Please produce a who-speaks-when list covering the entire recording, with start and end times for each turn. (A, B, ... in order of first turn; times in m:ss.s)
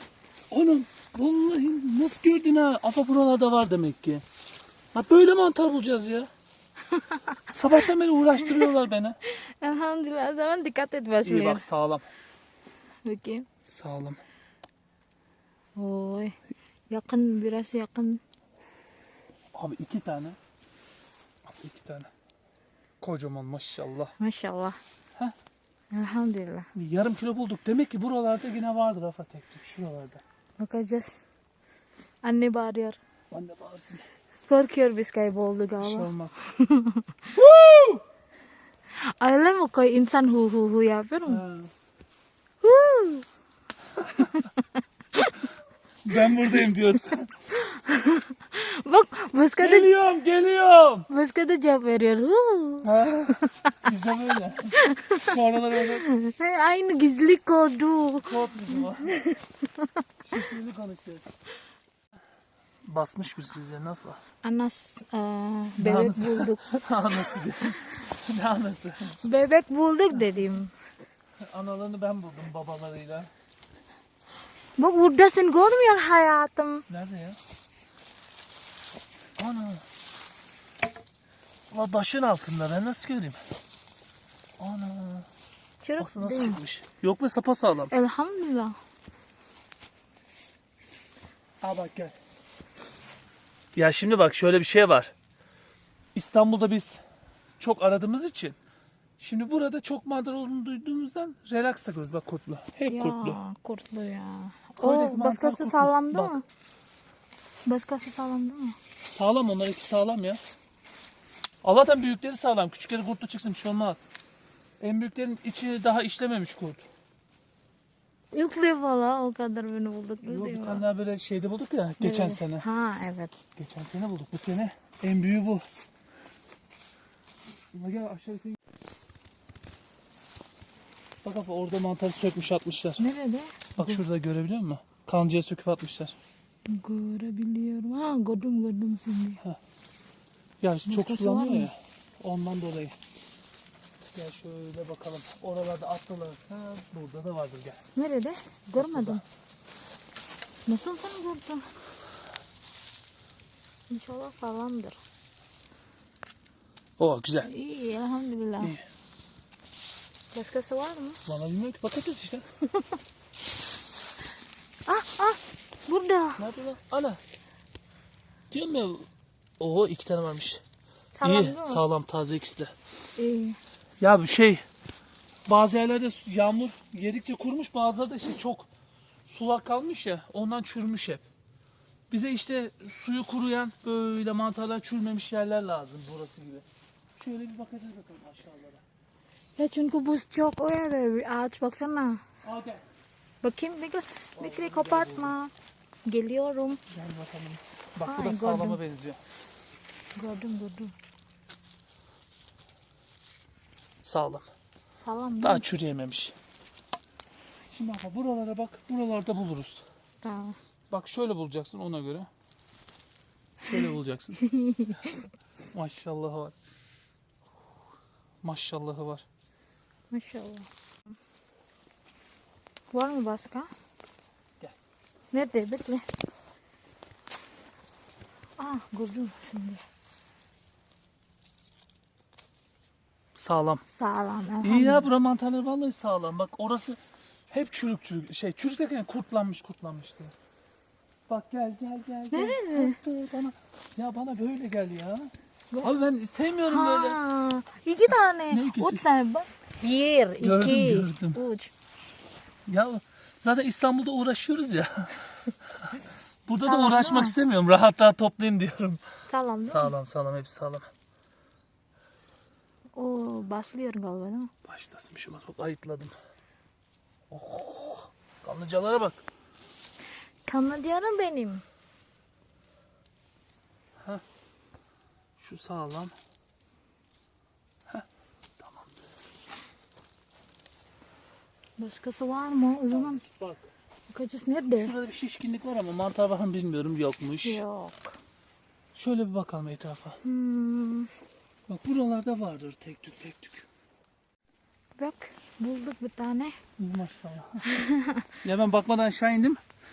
0:00.5-0:04.2 A
0:04.9-0:06.3 A
0:07.0-0:07.4 B
0:07.5-0:09.2 A
0:09.3-0:11.6 B
0:11.2-0:12.1 A
0:13.0-0:13.5 B
0:13.7-0:14.2 A
0:15.8-0:16.4 B
0:16.9-0:18.2 B
0:19.5-0:20.4 A
0:21.5-0:22.1 A
0:23.0-0:24.1 A
0:24.2-0:24.8 B
0:25.9-0:26.7 B
0:26.7-0:30.2 A
0:30.6-0:31.2 B
0:32.2-0:33.0 B
0:33.3-0:34.0 A
0:34.5-0:37.0 B
0:35.8-0:36.5 A
0:37.3-0:38.0 A
0:39.0-0:41.4 B
0:41.3-0:41.7 A
0:42.6-0:43.2 B
0:44.0-0:44.3 A
0:46.0-0:47.3 A
0:47.5-0:49.9 B
0:49.6-0:51.1 A
0:51.1-0:52.9 B
0:52.8-0:56.1 A
0:53.4-0:53.7 B
0:54.8-0:55.2 B
0:56.0-0:59.8 B
0:58.2-0:59.3 A
1:00.2-1:01.3 A
1:02.9-1:04.2 A
1:04.4-1:06.6 B
1:05.8-1:09.2 A
1:09.2-1:10.7 B
1:10.2-1:10.4 A
1:11.4-1:13.3 A
1:14.8-1:16.8 B
1:16.9-1:17.4 A
1:19.4-1:19.8 A
1:21.7-1:23.4 A
1:24.6-1:25.3 A
1:25.8-1:26.6 B
1:26.0-1:27.9 A
1:27.9-1:28.8 B
1:31.6-1:32.1 A
1:33.8-1:35.1 A
1:36.2-1:37.0 A
1:37.6-1:38.6 A
1:39.2-1:43.4 A
1:42.9-1:46.4 B
1:44.8-1:46.4 A
1:47.7-1:48.8 B
1:49.1-1:50.4 A
1:51.6-1:54.1 A
1:54.8-1:56.8 A
1:58.3-2:00.8 B
2:00.2-2:02.6 A
2:02.0-2:03.4 B
2:03.6-2:05.6 A
2:07.7-2:08.6 A
2:11.2-2:13.0 A
2:13.0-2:14.0 B
2:13.8-2:16.2 A
2:16.7-2:19.4 B
2:20.6-2:23.0 A
2:20.9-2:21.7 B
2:24.1-2:27.8 A
2:28.0-2:29.2 B
2:28.8-2:29.2 A
2:30.7-2:31.7 B
2:33.9-2:35.0 B
2:37.0-2:37.5 A
2:37.4-2:38.7 B
2:38.6-2:38.9 A
2:40.3-2:41.2 B
2:41.3-2:42.4 A
2:44.9-2:46.4 B
2:46.4-2:47.2 A
2:48.5-2:49.1 A
2:49.6-2:50.6 A
2:51.1-2:51.8 B
2:51.2-2:52.7 A
2:53.2-2:53.6 B
2:54.0-2:54.6 A
2:55.5-2:58.7 A
2:59.3-3:01.2 A
3:02.1-3:06.6 A
3:07.2-3:08.8 A
3:09.6-3:12.2 B
3:12.4-3:12.8 A
3:13.4-3:15.5 B
3:14.4-3:15.3 A
3:16.1-3:16.8 B
3:16.9-3:19.2 A
3:18.0-3:18.8 B
3:20.2-3:20.9 B
3:24.0-3:24.5 A
3:25.0-3:25.6 B
3:25.4-3:26.4 A
3:27.7-3:29.8 A
3:30.2-3:30.6 B
3:30.9-3:32.3 A
3:33.6-3:34.4 A
3:34.4-3:35.2 B
3:35.7-3:36.5 A
3:38.4-3:39.2 A
3:40.1-3:40.7 B
3:42.9-3:43.7 B
3:45.3-3:46.0 B
3:48.6-3:49.8 B
3:53.4-3:53.8 A
3:53.9-3:55.1 B
3:54.6-3:57.0 A
3:57.5-4:00.3 A
4:01.3-4:07.2 A
4:02.3-4:03.0 B
4:06.7-4:11.7 B
4:08.5-4:09.1 A
4:10.4-4:11.4 A
4:12.7-4:15.3 A
4:15.8-4:19.0 A
4:16.6-4:17.4 B
4:19.3-4:19.9 B
4:19.7-4:20.9 A
4:23.0-4:24.5 B
4:24.6-4:26.2 A
4:27.3-4:29.2 A
4:30.5-4:31.6 B
4:35.4-4:36.1 A
4:38.6-4:38.9 A
4:41.8-4:43.2 B
4:42.9-4:43.7 A
4:44.1-4:44.9 B
4:44.8-4:47.6 A
4:47.4-4:48.2 B
4:49.0-4:50.2 A
4:50.2-4:51.1 B
4:51.7-4:53.7 A
4:55.0-4:56.6 B
4:56.8-4:57.8 A
4:57.7-4:58.2 B
4:58.4-4:59.6 A